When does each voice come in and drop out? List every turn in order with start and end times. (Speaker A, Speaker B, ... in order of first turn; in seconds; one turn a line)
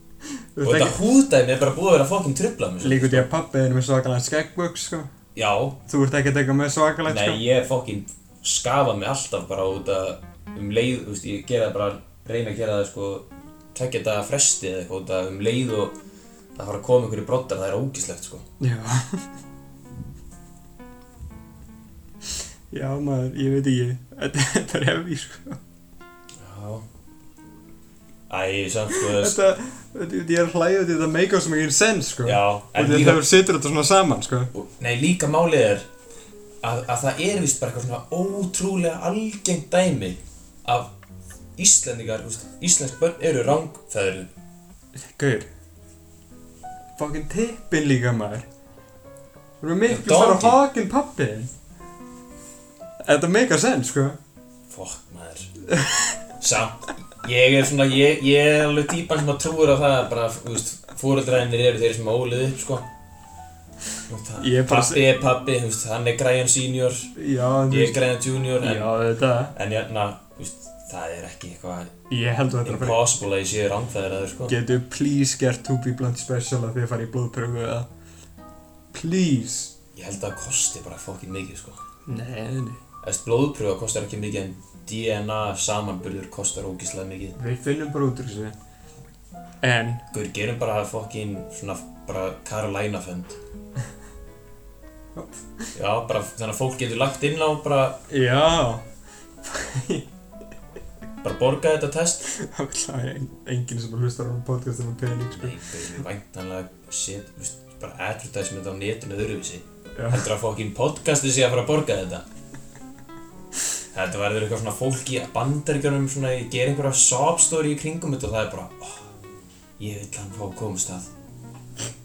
Speaker A: 0.6-1.0
Speaker B: 0.6-3.3
Speaker A: 2.8-5.1
Speaker B: 5.3-5.8
Speaker A: 5.9-7.4
Speaker B: 7.1-15.9
Speaker B: 16.6-18.4
Speaker A: 18.6-19.2
Speaker A: 22.7-25.6
Speaker B: 26.4-26.9
Speaker B: 28.3-29.4
Speaker A: 28.9-34.5
Speaker B: 32.2-33.3
Speaker B: 34.5-35.9
Speaker B: 36.6-40.9
Speaker B: 41.6-44.3
Speaker A: 45.0-45.5
Speaker A: 47.0-48.5
Speaker A: 49.6-51.5
Speaker B: 49.9-50.6
Speaker A: 53.0-54.2
Speaker B: 54.7-55.5
Speaker A: 55.7-56.2
Speaker B: 56.4-62.9
Speaker B: 64.1-67.1
Speaker A: 64.4-65.1
Speaker A: 67.2-68.0
Speaker B: 67.7-68.9
Speaker A: 68.6-69.5
Speaker B: 69.5-71.9
Speaker A: 72.1-73.0
Speaker B: 72.7-74.5
Speaker A: 74.5-77.9
Speaker A: 78.9-79.7
Speaker B: 80.0-81.8
Speaker A: 82.1-82.8
Speaker B: 83.0-87.4
Speaker A: 87.4-88.5
Speaker A: 89.6-90.0
Speaker B: 90.1-93.4
Speaker A: 95.2-95.7
Speaker B: 95.8-98.0
Speaker A: 98.1-98.8
Speaker A: 99.4-100.1
Speaker B: 101.2-102.3
Speaker A: 102.3-105.6
Speaker B: 105.4-112.3
Speaker A: 110.0-110.3
Speaker B: 113.9-119.1
Speaker B: 119.8-121.1